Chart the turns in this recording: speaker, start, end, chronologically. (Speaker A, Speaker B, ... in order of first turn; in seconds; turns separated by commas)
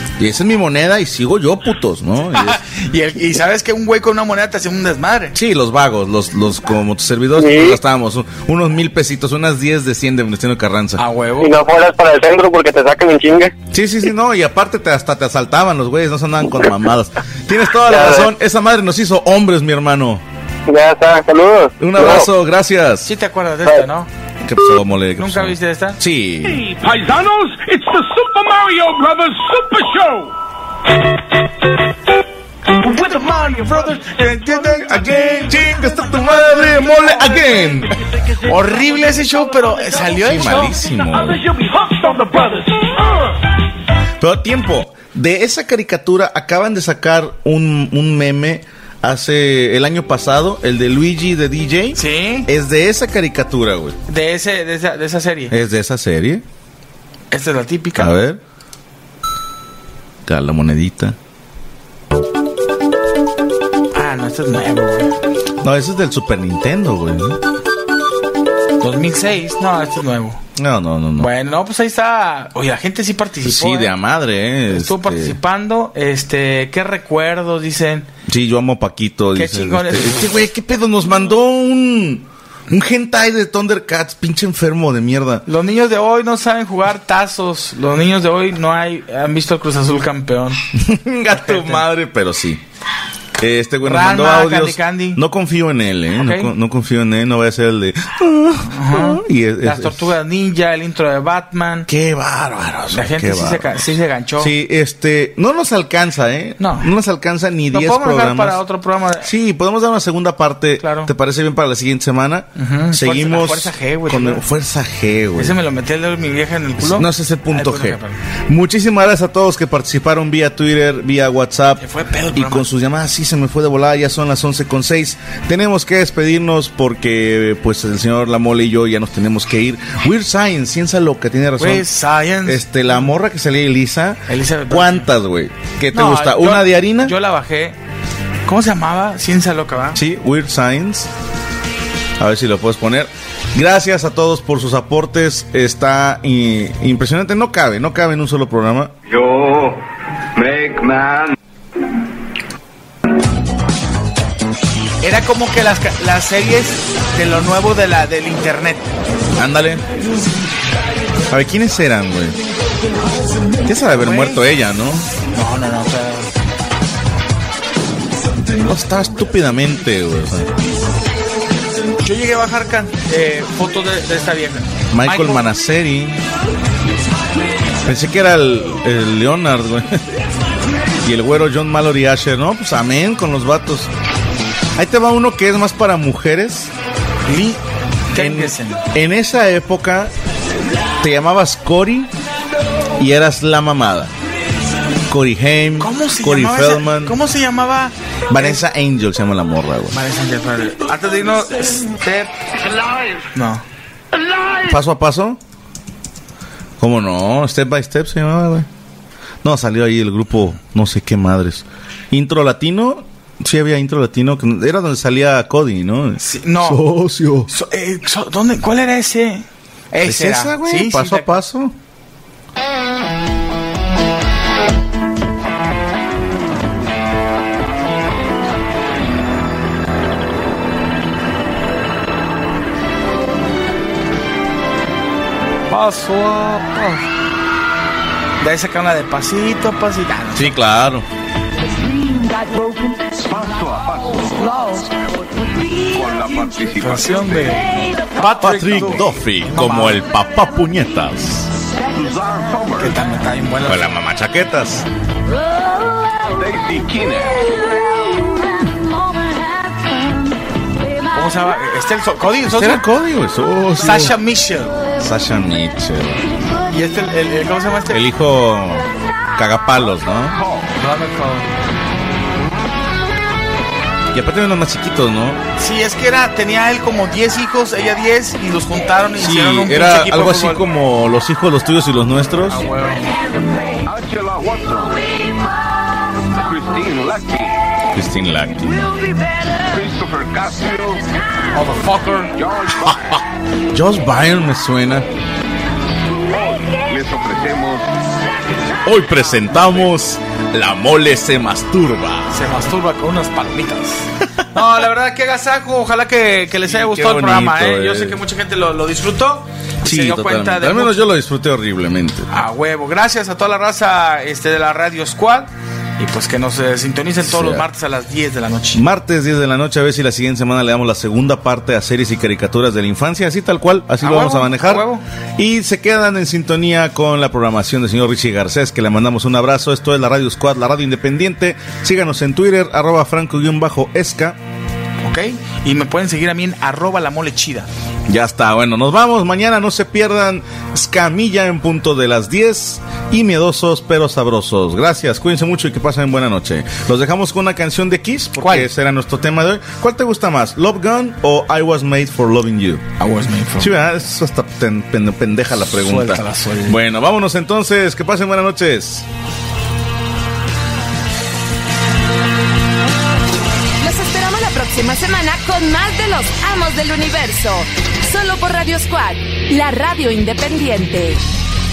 Speaker A: 0.2-2.6, Speaker B: 2.3-5.3, Speaker A: 5.3-11.0, Speaker C: 7.4-7.8, Speaker B: 11.0-11.5, Speaker C: 11.4-13.5, Speaker A: 13.7-20.2, Speaker C: 17.8-18.3, Speaker C: 20.7-22.3, Speaker A: 21.8-23.1, Speaker B: 23.1-24.1, Speaker A: 24.4-26.7, Speaker B: 25.2-26.0, Speaker D: 26.6-30.3, Speaker B: 32.8-35.5, Speaker A: 34.6-37.9, Speaker B: 38.4-40.8, Speaker A: 40.0-41.4, Speaker A: 44.2-54.0, Speaker B: 51.9-52.5, Speaker B: 54.1-55.5, Speaker A: 55.5-56.4, Speaker B: 57.3-58.1, Speaker A: 58.0-58.4, Speaker A: 60.2-61.1, Speaker B: 63.9-65.1, Speaker A: 65.6-67.4, Speaker B: 68.8-70.4, Speaker A: 70.5-71.3, Speaker B: 71.2-73.9, Speaker A: 73.4-75.4, Speaker B: 74.7-78.1, Speaker A: 78.3-85.4, Speaker B: 79.3-80.3, Speaker B: 85.5-90.6, Speaker A: 90.7-92.6, Speaker B: 91.3-91.8, Speaker A: 93.4-100.1, Speaker B: 93.8-95.2, Speaker B: 96.2-96.5, Speaker B: 98.7-101.9, Speaker A: 101.9-103.7, Speaker B: 102.9-104.5, Speaker A: 104.4-108.6, Speaker B: 106.6-106.9, Speaker B: 107.7-109.3, Speaker A: 109.2-115.6, Speaker B: 110.8-111.1, Speaker B: 112.6-114.4, Speaker B: 115.3-118.2, Speaker A: 116.8-121.8, Speaker B: 121.8-122.7, Speaker A: 122.3-131.8, Speaker B: 131.6-132.6, Speaker A: 132.4-137.1, Speaker B: 134.3-135.1, Speaker B: 135.9-137.8, Speaker B: 138.5-140.0, Speaker A: 139.9-141.1, Speaker A: 142.2-148.9, Speaker E: 149.1-149.8, Speaker E: 150.3-151.3, Speaker B: 155.0-158.9, Speaker A: 159.4-159.8, Speaker A: 161.3-162.4, Speaker A: 163.6-165.1, Speaker B: 163.9-164.4, Speaker B: 165.3-166.3, Speaker A: 168.6-170.5, Speaker B: 172.0-175.5, Speaker A: 174.9-176.2, Speaker A: 177.8-180.0, Speaker A: 181.0-183.9, Speaker A: 184.8-186.7, Speaker B: 187.3-187.6, Speaker B: 188.1-188.8, Speaker A: 188.1-190.1, Speaker A: 191.0-192.1, Speaker A: 193.0-194.1, Speaker A: 195.1-197.2, Speaker B: 195.8-198.6, Speaker A: 198.3-200.0, Speaker B: 199.9-202.3, Speaker B: 203.3-203.6, Speaker A: 204.6-205.4, Speaker A: 206.8-208.7, Speaker A: 209.4-217.5, Speaker B: 216.2-216.8, Speaker B: 217.5-221.3, Speaker A: 220.0-221.7, Speaker B: 235.7-236.9, Speaker B: 238.4-240.6, Speaker A: 240.3-241.1, Speaker E: 243.0-244.8, Speaker E: 245.8-247.6, Speaker B: 246.8-250.0, Speaker A: 248.4-251.5, Speaker E: 251.9-253.0, Speaker B: 252.8-253.9, Speaker A: 253.6-254.8, Speaker E: 256.3-257.6, Speaker B: 261.1-262.8, Speaker A: 262.5-264.1, Speaker B: 263.8-264.8, Speaker A: 265.0-266.2, Speaker B: 266.6-268.1, Speaker A: 267.9-270.4, Speaker B: 270.8-271.5, Speaker A: 274.1-275.4, Speaker B: 275.6-280.6, Speaker A: 279.2-282.6, Speaker B: 282.5-283.1, Speaker E: 283.8-285.1, Speaker E: 286.3-287.6, Speaker A: 287.9-288.9, Speaker E: 289.6-291.0, Speaker B: 291.5-292.3, Speaker E: 292.3-293.1, Speaker A: 292.8-293.2, Speaker A: 293.7-295.1, Speaker E: 296.3-297.9, Speaker A: 298.8-302.3, Speaker B: 302.3-311.0, Speaker A: 306.6-308.2, Speaker A: 309.8-312.3, Speaker B: 312.3-318.8, Speaker A: 317.2-317.6, Speaker A: 318.7-324.9, Speaker B: 324.0-325.0, Speaker A: 325.4-334.4, Speaker B: 335.0-337.7, Speaker A: 338.1-352.9, Speaker B: 348.4-348.7, Speaker B: 353.0-353.7, Speaker A: 353.6-359.1, Speaker B: 355.8-356.8, Speaker F: 363.8-371.2